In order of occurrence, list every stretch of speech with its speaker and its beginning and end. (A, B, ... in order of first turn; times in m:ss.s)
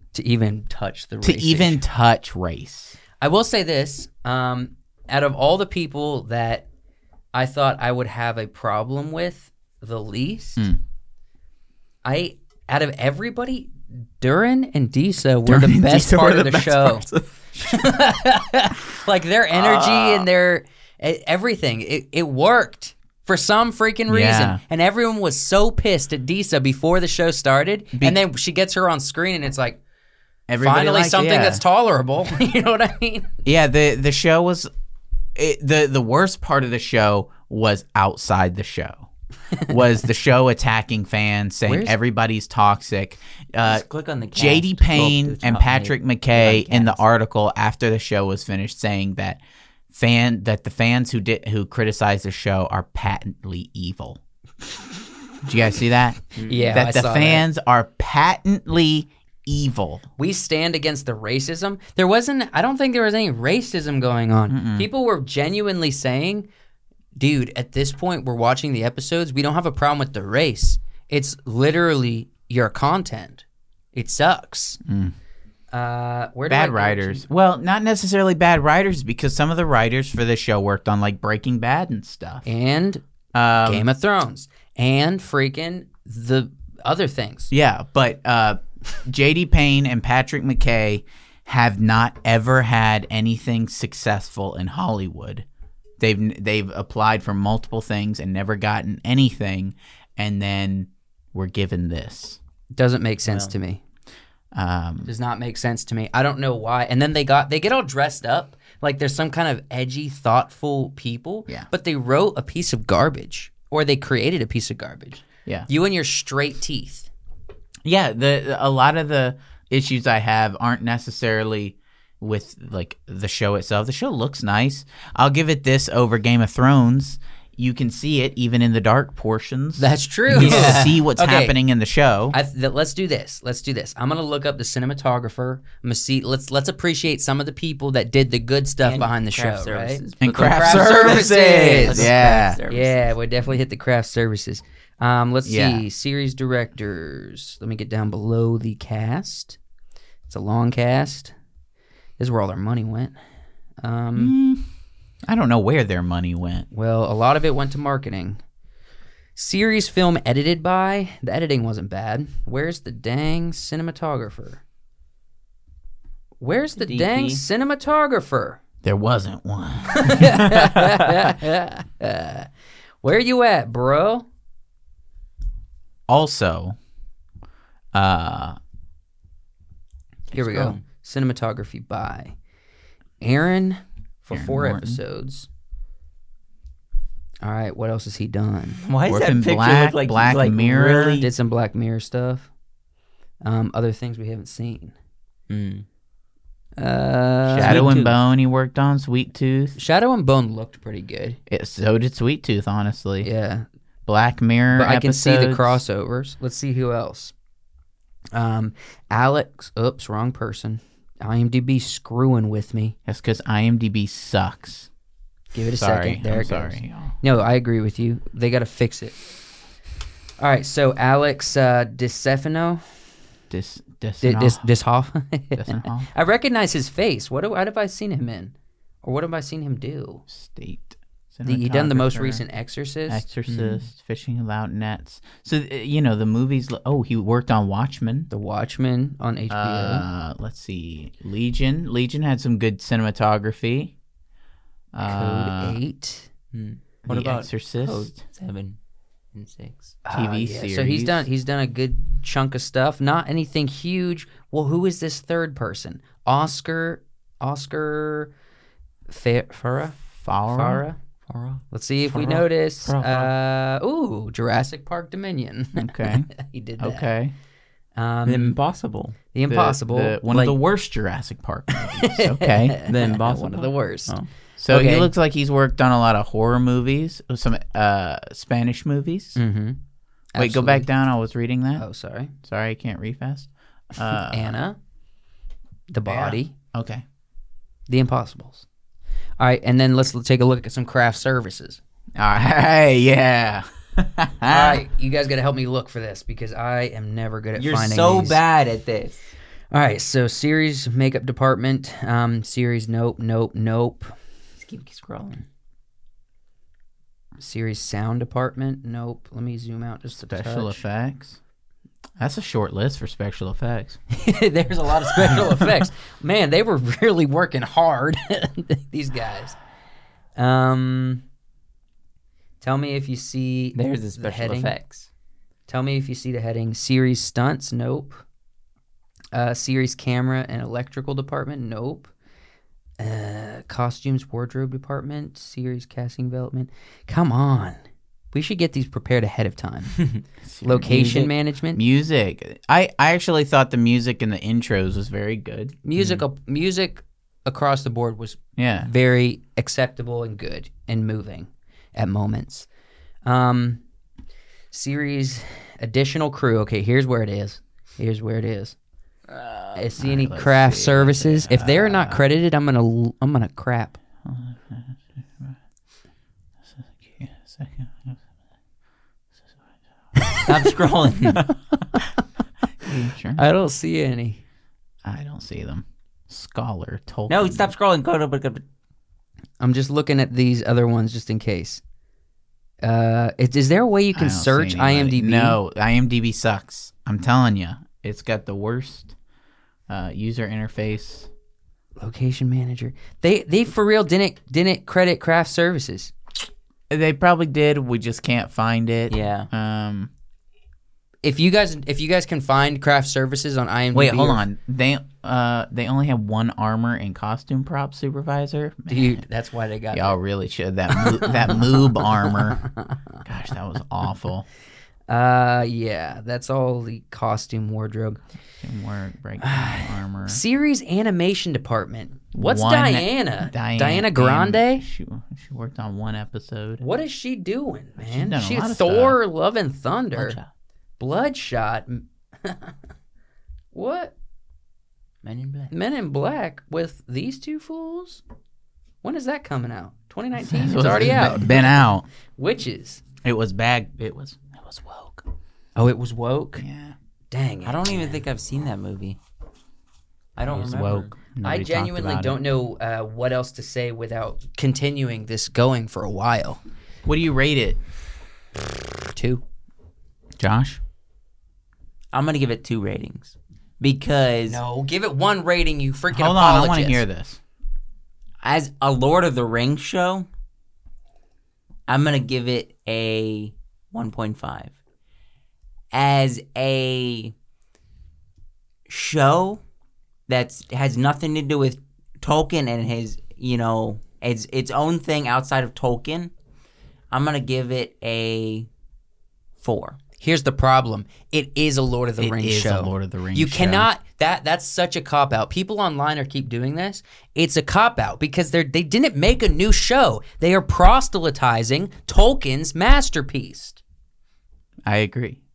0:00.1-0:01.8 A
0:01.2-0:03.0 B
0:03.2-0:06.6 A
0:07.3-0:10.7 A
0:12.0-0:17.1 A
0:15.4-0:17.9 B
0:17.6-0:29.8 A
0:24.1-0:24.6 B
0:27.9-0:28.2 B
0:30.5-0:31.6 B
0:30.6-0:33.3 A
0:33.4-0:34.7 B
0:35.3-0:39.1 B
0:39.6-0:43.8 B
0:41.6-0:42.0 A
0:43.6-0:47.0 C
0:44.3-0:49.4 B
0:49.9-0:54.2 B
0:55.4-1:00.0 B
0:56.4-0:56.7 C
0:56.4-0:57.4 A
1:00.2-1:06.5 A
1:04.5-1:04.9 B
1:07.2-1:14.8 A
1:14.8-1:15.1 B
1:15.7-1:17.2 A
1:16.5-1:22.4 B
1:22.4-1:23.0 A
1:23.3-1:23.8 B
1:23.6-1:27.5 A
1:27.5-1:35.4 B
1:36.0-1:42.4 B
1:42.7-1:43.8 A
1:43.2-1:43.5 C
1:44.5-1:45.1 B
1:45.0-1:57.1 A
1:57.8-2:12.4 B
2:09.8-2:11.6 A
2:10.3-2:11.0 C
2:12.3-2:22.1 A
2:18.8-2:23.1 C
2:20.2-2:22.6 B
2:22.7-2:29.6 A
2:25.4-2:25.8 B
2:30.3-2:31.3 A
2:32.2-2:33.2 A
2:33.8-2:34.3 A
2:34.2-2:34.7 B
2:35.2-2:36.7 B
2:36.7-2:38.4 A
2:39.4-2:44.6 A
2:46.4-2:48.6 A
2:46.8-2:47.4 C
2:48.8-2:51.3 B
2:49.9-2:52.5 A
2:53.0-2:54.2 A
2:56.1-2:56.8 B
2:57.9-2:58.6 B
3:00.3-3:02.3 A
3:00.3-3:00.8 C
3:03.2-3:05.5 A
3:04.3-3:05.0 B
3:07.4-3:08.8 A
3:08.8-3:11.3 C
3:09.1-3:11.2 B
3:11.2-3:12.5 A
3:13.4-3:14.9 A
3:15.5-3:15.8 C
3:16.8-3:18.0 A
3:17.5-3:19.8 B
3:17.6-3:18.1 C
3:19.8-3:21.4 A
3:21.5-3:23.3 B
3:23.2-3:23.6 A
3:24.0-3:25.8 B
3:24.7-3:27.3 A
3:28.3-3:32.9 A
3:33.1-3:34.9 B
3:35.5-3:39.2 A
3:35.8-3:37.2 B
3:40.4-3:42.8 A
3:43.5-3:44.6 B
3:44.2-3:50.2 A
3:45.6-3:46.1 B
3:50.3-3:52.4 B
3:51.4-3:53.2 A
3:53.1-3:58.3 B
3:53.5-3:53.8 C
3:58.3-4:00.0 A
3:59.5-4:03.9 B
4:04.9-4:05.8 B
4:05.0-4:06.3 A
4:06.5-4:08.8 C
4:07.0-4:08.2 B
4:09.3-4:10.0 C
4:10.0-4:18.3 A
4:10.1-4:11.3 B
4:19.1-4:20.0 A
4:20.2-4:20.8 B
4:20.5-4:21.0 A
4:21.3-4:23.3 C
4:21.7-4:27.1 A
4:25.8-4:27.3 B
4:28.0-4:28.5 A
4:28.2-4:29.2 C
4:29.3-4:30.2 A
4:29.5-4:32.8 B
4:30.3-4:30.6 C
4:31.7-4:34.1 A
4:32.9-4:34.3 C
4:34.6-4:39.4 B
4:34.7-4:35.1 A
4:39.4-4:39.8 A
4:40.3-4:40.9 A
4:40.4-4:41.8 B
4:41.8-4:42.3 A
4:42.4-4:44.5 B
4:44.3-4:44.8 A
4:45.9-4:46.5 A
4:46.0-4:47.0 B
4:47.9-4:48.6 A
4:49.4-4:51.8 A
4:52.2-4:54.8 B
4:54.5-4:58.4 A
4:57.6-4:59.2 C
4:59.7-5:04.1 A
5:04.6-5:05.4 C
5:07.4-5:10.8 A
5:10.1-5:11.4 B
5:12.2-5:14.0 B
5:14.1-5:19.6 A
5:15.3-5:15.7 B
5:20.4-5:21.2 A
5:22.6-5:24.7 A
5:23.7-5:25.1 C
5:25.7-5:28.2 A
5:29.3-5:32.1 A
5:33.0-5:37.8 A
5:38.3-5:40.0 A
5:40.4-5:46.2 B
5:40.6-5:41.8 A
5:45.8-5:52.7 A
5:48.6-5:48.9 B
5:53.2-5:53.8 A
5:54.7-5:58.8 A
5:59.3-5:59.8 C
5:59.7-6:04.0 A
6:00.0-6:02.2 B
6:04.2-6:05.6 B
6:06.6-6:08.2 B
6:10.4-6:11.4 C
6:12.8-6:13.4 B
6:13.4-6:14.4 A
6:15.0-6:17.7 B
6:17.3-6:18.6 C
6:19.6-6:21.8 A
6:22.8-6:25.6 A
6:24.1-6:29.1 B
6:29.9-6:31.3 B
6:32.0-6:36.1 A
6:36.9-6:40.1 B
6:39.1-6:39.5 C
6:41.2-6:44.4 A
6:43.9-6:49.2 B
6:48.9-6:50.2 A
6:49.9-6:52.6 B
6:50.9-6:52.8 A
6:53.2-6:54.4 B
6:55.1-6:58.2 A
6:58.6-7:00.4 B
6:59.4-7:04.8 A
7:02.3-7:06.8 B
7:06.8-7:10.4 A
7:08.0-7:09.2 B
7:10.1-7:10.4 C
7:11.0-7:12.7 A
7:13.7-7:14.1 A
7:15.2-7:15.7 C
7:15.7-7:18.2 A
7:19.0-7:21.8 A
7:20.4-7:22.1 B
7:22.4-7:23.0 A
7:23.2-7:25.2 B
7:25.8-7:26.6 A
7:26.6-7:26.9 B
7:27.3-7:28.2 A
7:27.6-7:29.2 C
7:30.4-7:31.1 C
7:30.5-7:32.4 B
7:31.4-7:36.6 A
7:37.0-7:37.8 B
7:39.1-7:39.4 A
7:40.4-7:40.8 B
7:42.1-7:44.6 C
7:44.5-7:47.0 A
7:46.1-7:47.4 B
7:48.4-7:50.3 C
7:51.9-7:54.7 C
7:55.9-7:57.3 C
7:58.9-7:59.6 C
8:00.3-8:06.3 C
8:07.1-8:08.7 C
8:09.6-8:10.0 C
8:10.2-8:23.8 A
8:12.2-8:13.9 B
8:24.8-8:25.4 B